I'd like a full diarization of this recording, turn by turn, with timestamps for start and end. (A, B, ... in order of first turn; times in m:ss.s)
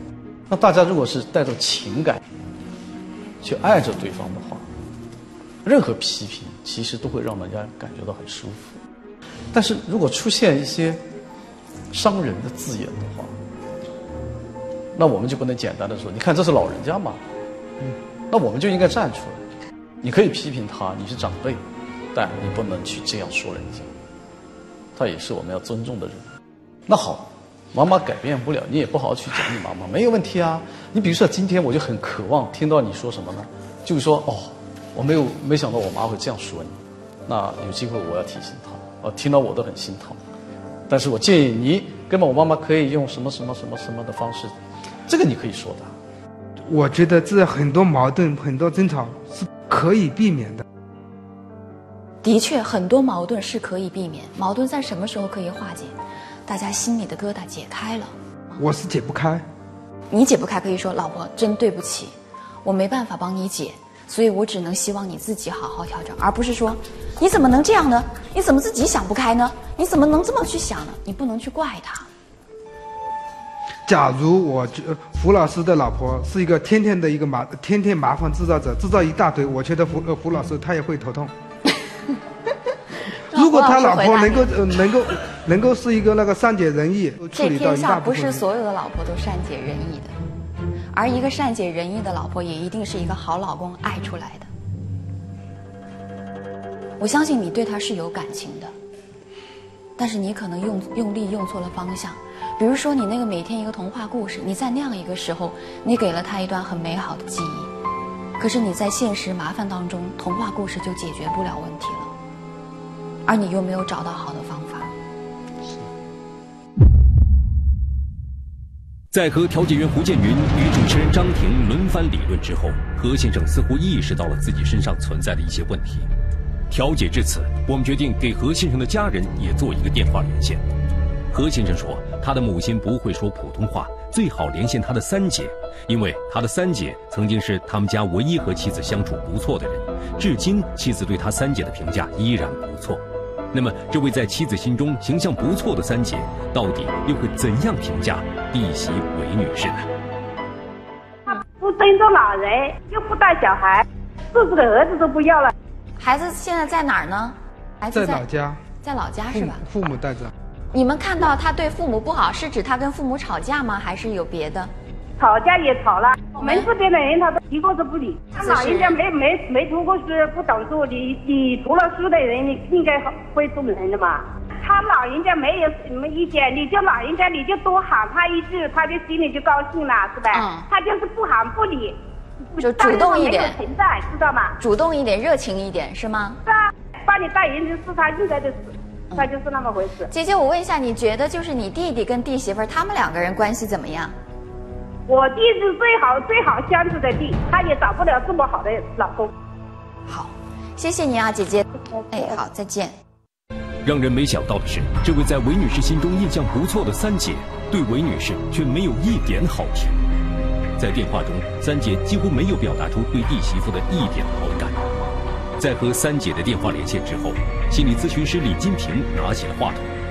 0:00.5-0:02.2 A
0:03.4-0:04.7 A
0:05.6-0:08.8 A
0:09.5-0:11.0 A
0:11.9-0:13.4 A
0:14.9-0:17.2 A
0:18.3-0:19.4 A
0:20.0-0:21.6 A
0:22.1-0:23.9 A
0:25.0-0:26.3 A
0:26.9-0:40.2 A
0:40.9-0:44.6 A
0:45.1-0:46.0 A
0:46.6-0:50.6 B
0:52.2-0:58.2 C
0:58.6-0:59.4 B
1:00.1-1:12.1 C
1:13.9-1:21.3 B
1:23.3-1:28.4 B
1:23.3-1:24.9 C
1:27.3-1:30.1 C
1:30.9-1:34.5 C
1:37.0-1:38.7 C
1:40.0-1:47.7 C
1:48.4-1:52.1 C
1:53.2-1:54.9 C
1:55.6-1:55.9 B
1:59.1-2:06.1 D
2:06.7-2:10.6 D
2:11.3-2:23.0 D
2:23.5-2:29.9 D
2:31.4-2:35.5 E
2:36.0-2:38.2 C
2:37.9-2:38.6 B
2:38.8-2:39.6 C
2:39.3-2:40.3 B
2:40.7-2:44.7 C
2:45.2-3:02.0 E
2:46.4-2:46.7 C
2:48.4-2:49.0 C
3:00.3-3:00.7 C
3:02.6-3:04.6 E
3:02.6-3:03.6 C
3:04.6-3:06.4 C
3:06.5-3:10.1 E
3:10.1-3:14.2 C
3:15.1-3:19.3 E
3:20.1-3:23.0 C
3:23.8-3:30.0 D
3:30.8-3:34.7 D
3:35.6-3:39.9 D